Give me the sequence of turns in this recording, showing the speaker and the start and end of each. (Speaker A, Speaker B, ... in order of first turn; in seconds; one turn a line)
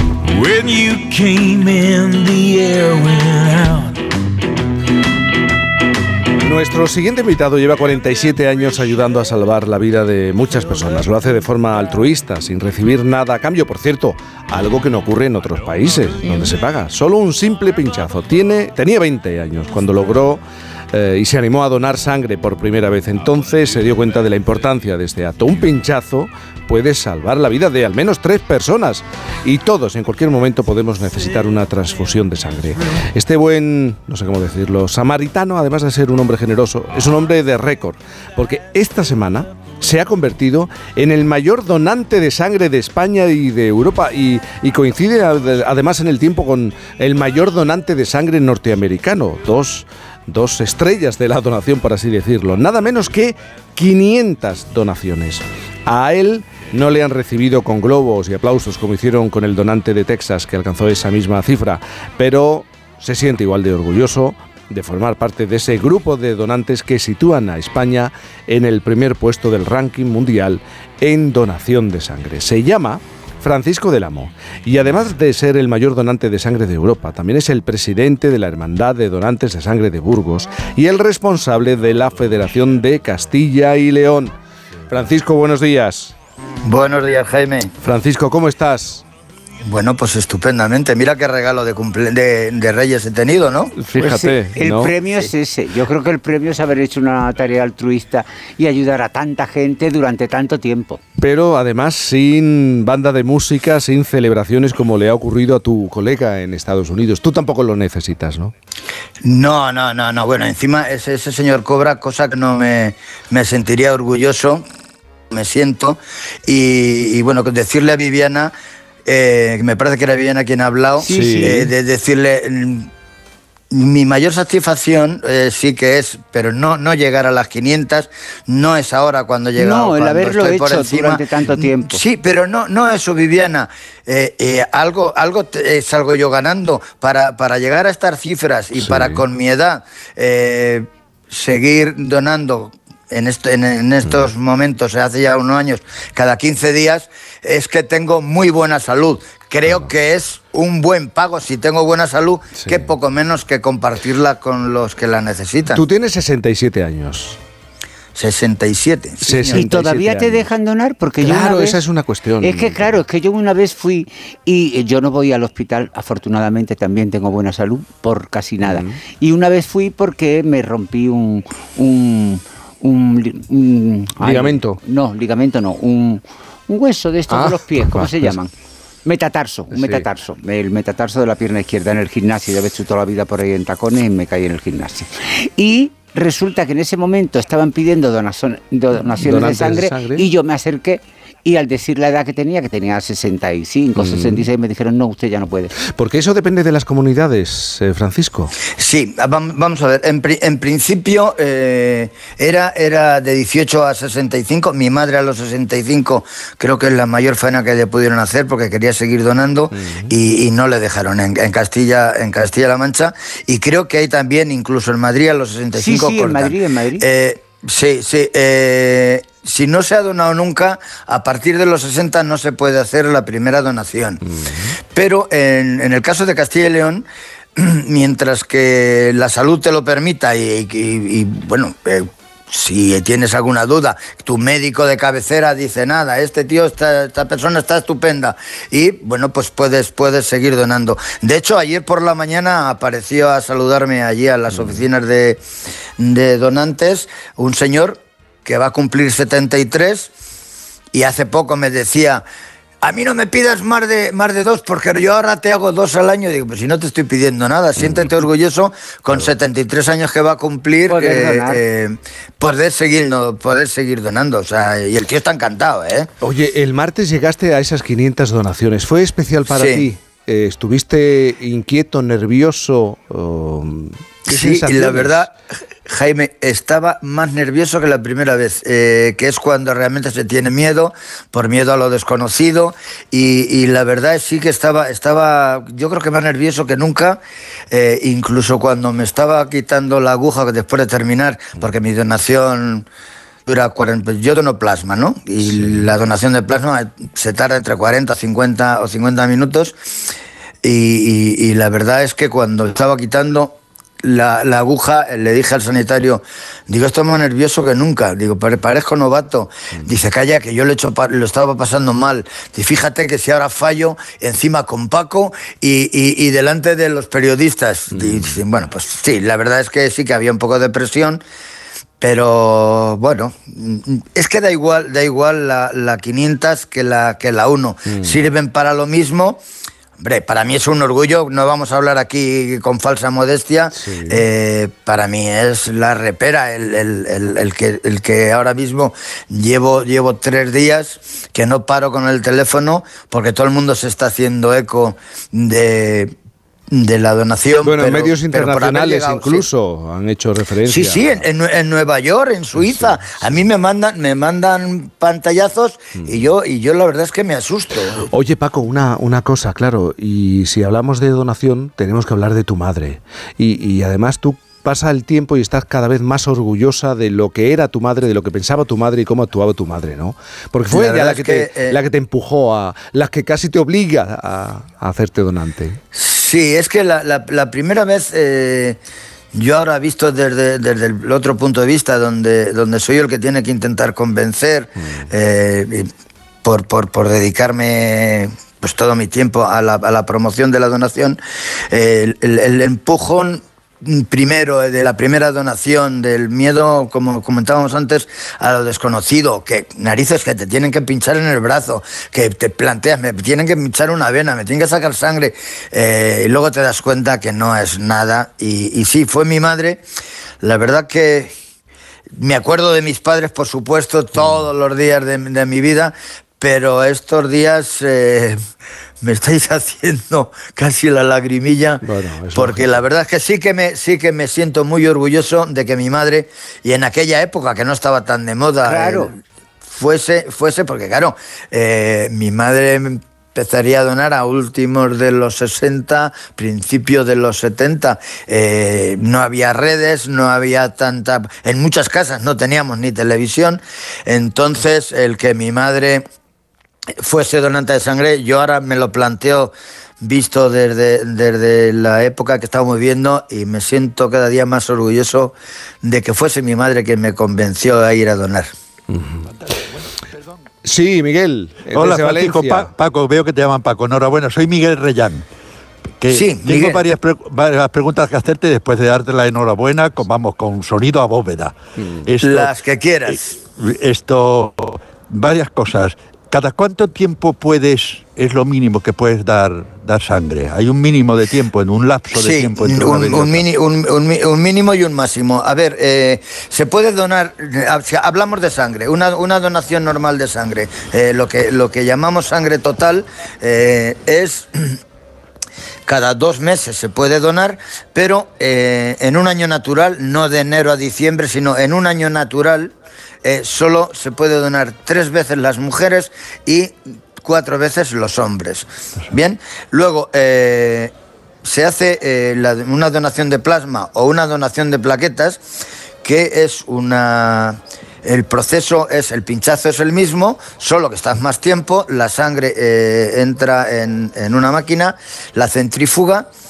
Speaker A: 0.4-4.0
Speaker B: 6.4-20.4
Speaker B: 20.9-84.3
Speaker B: 84.9-86.1
Speaker C: 86.7-87.7
Speaker B: 87.8-89.0
Speaker C: 89.6-93.7
Speaker B: 93.8-94.9
Speaker D: 94.0-101.0
Speaker B: 101.2-108.5
Speaker C: 109.2-114.6
Speaker C: 115.3-118.5
Speaker C: 119.1-122.9
Speaker D: 121.0-121.7
Speaker B: 121.1-121.7
Speaker C: 123.7-155.8
Speaker D: 129.6-132.0
Speaker B: 138.8-139.2
Speaker B: 152.6-152.9
Speaker B: 155.7-157.4
Speaker C: 158.2-159.7
Speaker B: 159.2-160.5
Speaker D: 159.5-161.8
Speaker B: 161.2-163.0
Speaker D: 162.4-178.5
Speaker B: 168.6-169.0
Speaker B: 174.2-174.8
Speaker B: 177.3-178.4
Speaker D: 179.1-195.7
Speaker B: 179.7-180.1
Speaker B: 189.1-190.3
Speaker B: 194.0-194.5
Speaker B: 195.9-198.6
Speaker C: 198.7-224.2
Speaker B: 209.7-210.1
Speaker D: 215.7-217.1
Speaker B: 224.2-224.8
Speaker C: 224.9-227.1
Speaker C: 227.6-245.4
Speaker C: 246.0-250.1
Speaker C: 250.9-252.2
Speaker C: 252.8-266.1
Speaker D: 260.9-261.6
Speaker B: 266.2-275.3
Speaker C: 269.5-269.9
Speaker C: 274.3-275.3
Speaker C: 275.9-287.2
Speaker C: 287.7-292.9
Speaker C: 293.5-299.8
Speaker B: 295.5-295.9
Speaker C: 300.6-321.2
Speaker B: 317.9-318.4
Speaker C: 322.0-329.4
Speaker B: 327.9-328.2
Speaker C: 330.0-346.1
Speaker B: 333.8-334.2
Speaker C: 346.7-349.5
Speaker B: 347.6-351.2
Speaker C: 350.6-358.1
Speaker B: 352.6-353.4
Speaker B: 358.1-375.8
Speaker C: 370.7-371.8
Speaker C: 375.9-378.8
Speaker C: 379.3-385.9
Speaker C: 386.4-391.2
Speaker C: 391.7-409.8
Speaker C: 410.4-411.3
Speaker C: 412.2-418.4
Speaker C: 419.0-421.8
Speaker B: 421.8-422.8
Speaker C: 422.3-429.1
Speaker D: 428.6-429.1
Speaker C: 429.7-446.0
Speaker C: 447.0-458.5
Speaker B: 458.9-459.2
Speaker B: 460.6-462.7
Speaker E: 461.7-465.2
Speaker E: 466.0-471.5
Speaker C: 466.1-466.8
Speaker E: 472.1-472.5
Speaker C: 472.2-473.4
Speaker E: 473.6-483.5
Speaker C: 482.1-494.8
Speaker C: 495.9-502.7
Speaker C: 503.2-510.9
Speaker C: 511.4-515.4
Speaker C: 516.0-526.3